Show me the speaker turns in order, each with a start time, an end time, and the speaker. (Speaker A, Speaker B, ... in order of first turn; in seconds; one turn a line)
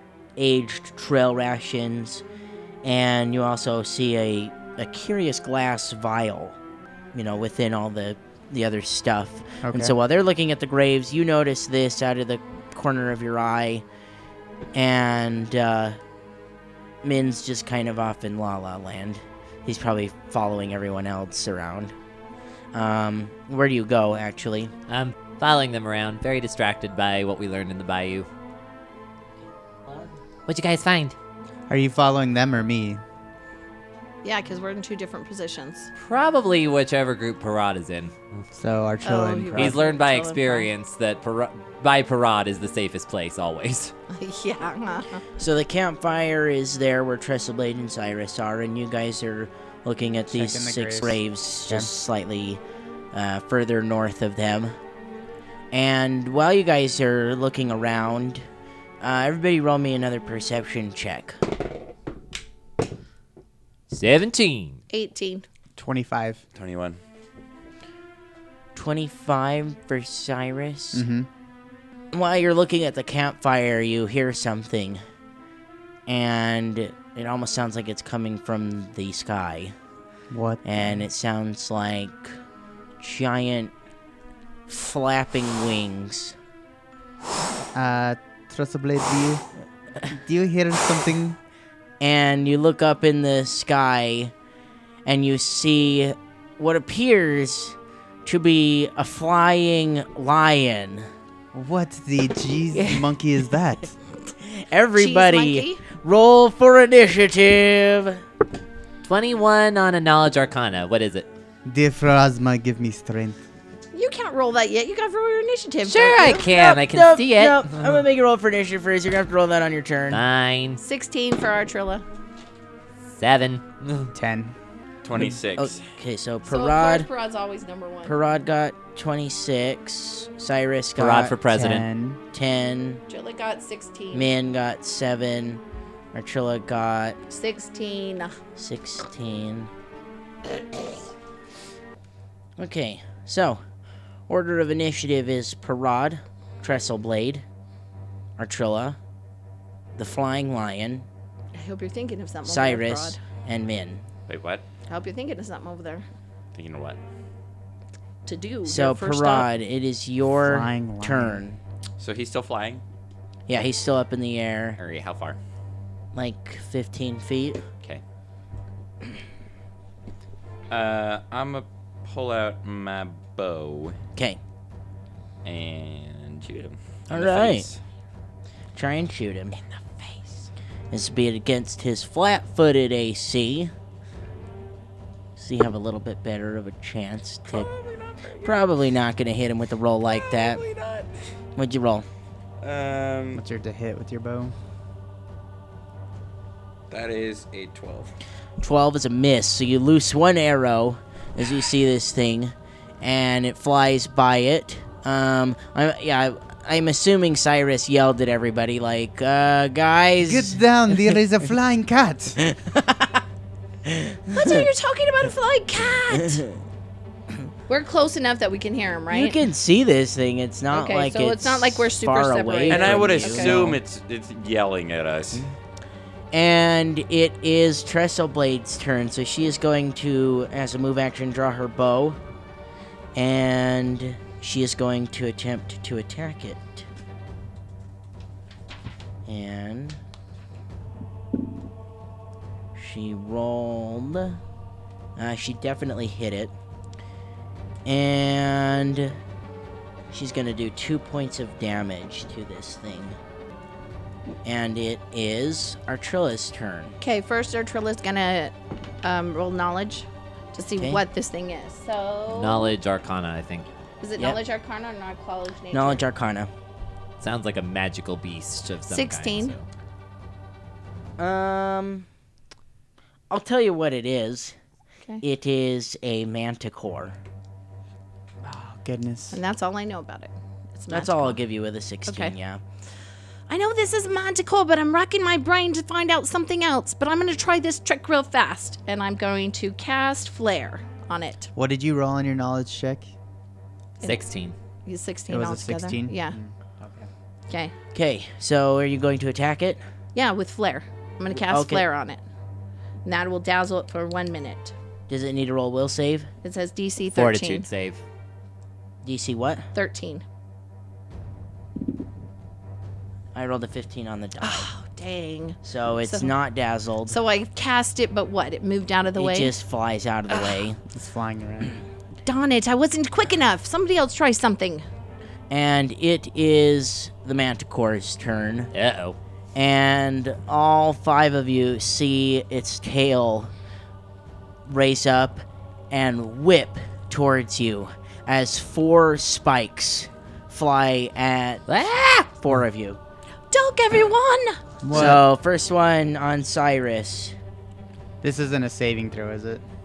Speaker A: 0.4-2.2
Speaker A: 2.8-6.6
Speaker A: 7.1-13.8
Speaker B: 9.6-9.9
Speaker A: 14.7-16.0
Speaker A: 17.0-21.9
Speaker A: 22.7-24.7
Speaker C: 24.9-28.3
Speaker C: 30.5-31.1
Speaker B: 31.7-33.0
Speaker D: 34.2-35.9
Speaker C: 36.0-38.4
Speaker B: 38.5-39.8
Speaker D: 39.0-40.7
Speaker C: 39.5-43.9
Speaker D: 44.1-45.2
Speaker A: 45.4-52.6
Speaker B: 50.3-51.9
Speaker A: 53.1-54.7
Speaker A: 55.7-58.4
Speaker A: 59.0-61.4
Speaker C: 63.9-64.8
Speaker D: 64.9-65.5
Speaker B: 65.8-66.4
Speaker E: 66.5-67.0
Speaker A: 68.7-71.0
Speaker B: 70.9-71.3
Speaker A: 72.1-75.0
Speaker A: 76.1-79.7
Speaker B: 80.3-81.0
Speaker A: 80.6-82.4
Speaker A: 83.0-83.7
Speaker A: 84.7-86.3
Speaker B: 87.7-89.4
Speaker B: 90.1-91.4
Speaker A: 92.0-94.3
Speaker A: 95.0-101.1
Speaker B: 101.5-103.9
Speaker A: 104.4-108.2
Speaker D: 105.0-105.8
Speaker C: 109.0-111.3
Speaker B: 111.6-113.4
Speaker D: 113.9-116.5
Speaker C: 115.8-118.0
Speaker A: 116.2-120.2
Speaker C: 120.1-120.8
Speaker D: 120.8-122.0
Speaker C: 123.2-124.1
Speaker B: 124.1-124.5
Speaker E: 125.0-125.8
Speaker A: 125.5-127.1
Speaker D: 126.5-128.2
Speaker A: 128.0-131.3
Speaker C: 130.9-131.8
Speaker B: 131.5-132.2
Speaker A: 132.3-133.0
Speaker D: 133.1-134.3
Speaker A: 134.1-135.6
Speaker A: 136.1-137.2
Speaker D: 137.3-138.3
Speaker A: 138.6-139.7
Speaker A: 142.6-143.6
Speaker A: 144.3-147.4
Speaker A: 148.4-149.0
Speaker A: 150.0-151.1
Speaker D: 151.5-153.2
Speaker A: 152.4-154.0
Speaker E: 154.3-154.6
Speaker D: 154.9-156.0
Speaker E: 156.5-157.0
Speaker D: 158.2-159.5
Speaker A: 158.6-161.6
Speaker B: 160.4-161.4
Speaker E: 162.0-162.8
Speaker A: 163.5-164.8
Speaker E: 164.8-165.4
Speaker A: 166.1-167.6
Speaker E: 170.7-173.9
Speaker E: 175.4-177.8
Speaker A: 177.1-177.7
Speaker A: 178.7-179.6
Speaker E: 179.6-180.5
Speaker A: 180.9-183.7
Speaker A: 185.4-187.7
Speaker E: 187.5-188.6
Speaker A: 188.4-190.6
Speaker E: 190.1-191.1
Speaker A: 191.6-192.1
Speaker E: 192.6-193.4
Speaker B: 193.3-194.5
Speaker E: 196.9-198.1
Speaker A: 198.6-211.1
Speaker B: 210.2-212.4
Speaker A: 212.4-213.2
Speaker A: 213.8-214.6
Speaker D: 214.3-216.4
Speaker A: 216.1-216.6
Speaker D: 217.7-219.4
Speaker A: 219.1-223.8
Speaker D: 220.7-223.6
Speaker E: 222.7-225.5
Speaker A: 226.3-232.2
Speaker A: 233.1-236.9
Speaker A: 239.2-240.0
Speaker A: 242.7-244.4
Speaker A: 245.2-246.5
Speaker A: 247.8-249.2
Speaker A: 250.1-253.2
Speaker A: 254.4-257.0
Speaker D: 257.0-262.7
Speaker A: 260.8-261.0
Speaker C: 262.3-263.7
Speaker D: 264.0-266.0
Speaker A: 265.7-266.5
Speaker C: 267.2-269.6
Speaker D: 268.9-269.5
Speaker A: 271.2-272.1
Speaker A: 273.3-274.5
Speaker A: 275.2-277.2
Speaker B: 278.4-279.4
Speaker D: 279.3-281.4
Speaker A: 280.9-282.6
Speaker D: 282.1-282.3
Speaker D: 283.5-291.5
Speaker B: 291.6-293.1
Speaker C: 294.0-294.5
Speaker D: 294.9-296.4
Speaker B: 295.3-297.1
Speaker A: 297.9-299.8
Speaker D: 300.1-302.2
Speaker A: 301.3-301.8
Speaker D: 303.0-304.7
Speaker A: 305.1-306.3
Speaker D: 306.4-307.6
Speaker C: 307.1-308.0
Speaker A: 309.0-309.7
Speaker D: 309.7-310.2
Speaker A: 313.3-314.7
Speaker D: 314.4-316.3
Speaker A: 315.6-317.2
Speaker D: 317.1-319.5
Speaker A: 319.1-320.8
Speaker B: 320.9-321.8
Speaker D: 322.2-324.8
Speaker A: 325.5-328.7
Speaker C: 328.7-329.2
Speaker A: 329.5-333.5
Speaker A: 334.7-341.6
Speaker C: 341.7-342.3
Speaker A: 342.4-343.0
Speaker D: 343.5-344.6
Speaker B: 344.8-345.2
Speaker A: 344.9-347.3
Speaker B: 348.2-349.6